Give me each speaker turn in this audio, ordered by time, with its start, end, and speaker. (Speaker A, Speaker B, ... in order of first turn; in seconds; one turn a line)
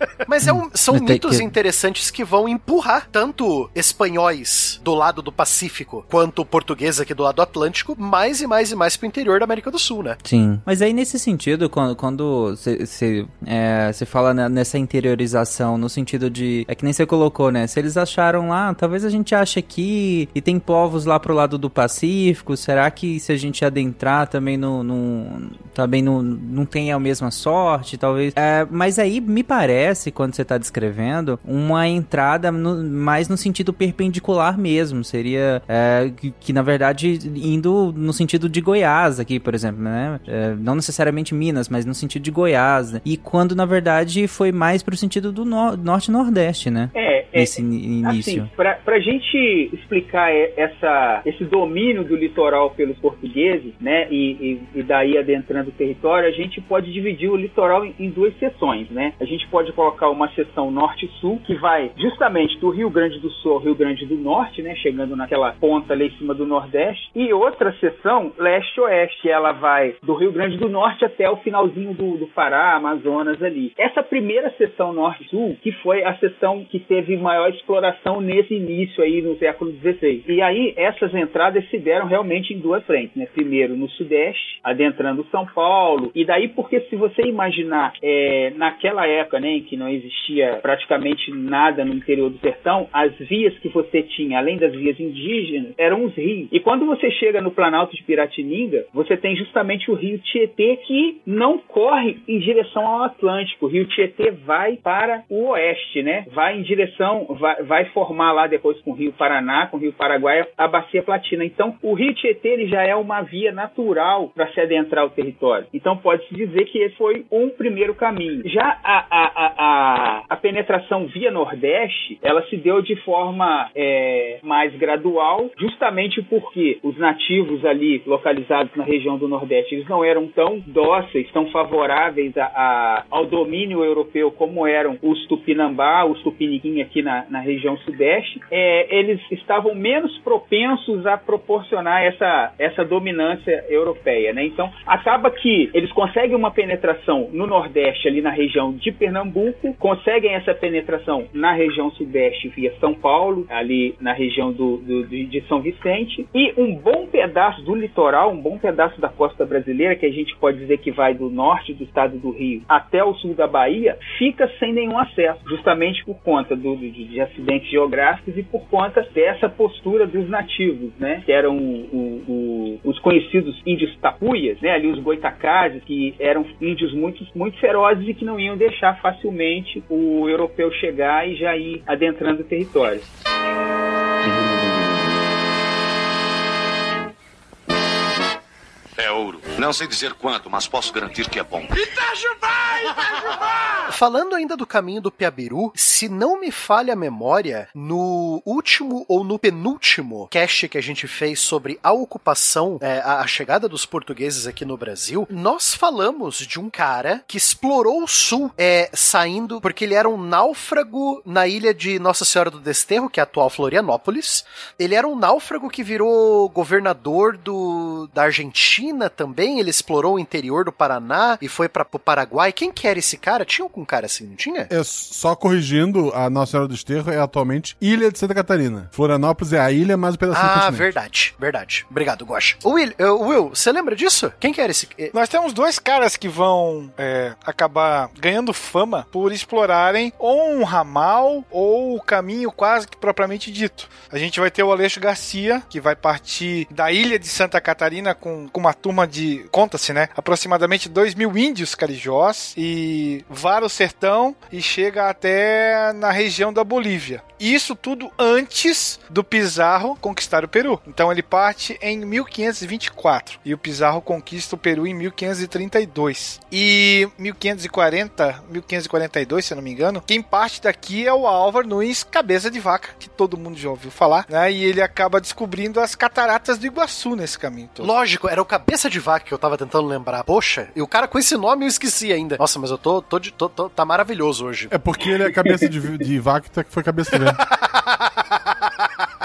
Speaker A: 0.3-10.2
Speaker B: 0.5-1.5
Speaker B: 10.2-48.5
Speaker C: 46.9-183.1
Speaker D: 189.0-193.8
Speaker A: 193.9-224.7
Speaker E: 224.7-230.9
Speaker A: 230.3-235.1
Speaker F: 235.1-277.9
Speaker A: 277.8-284.7
Speaker E: 284.7-287.4
Speaker A: 287.4-288.9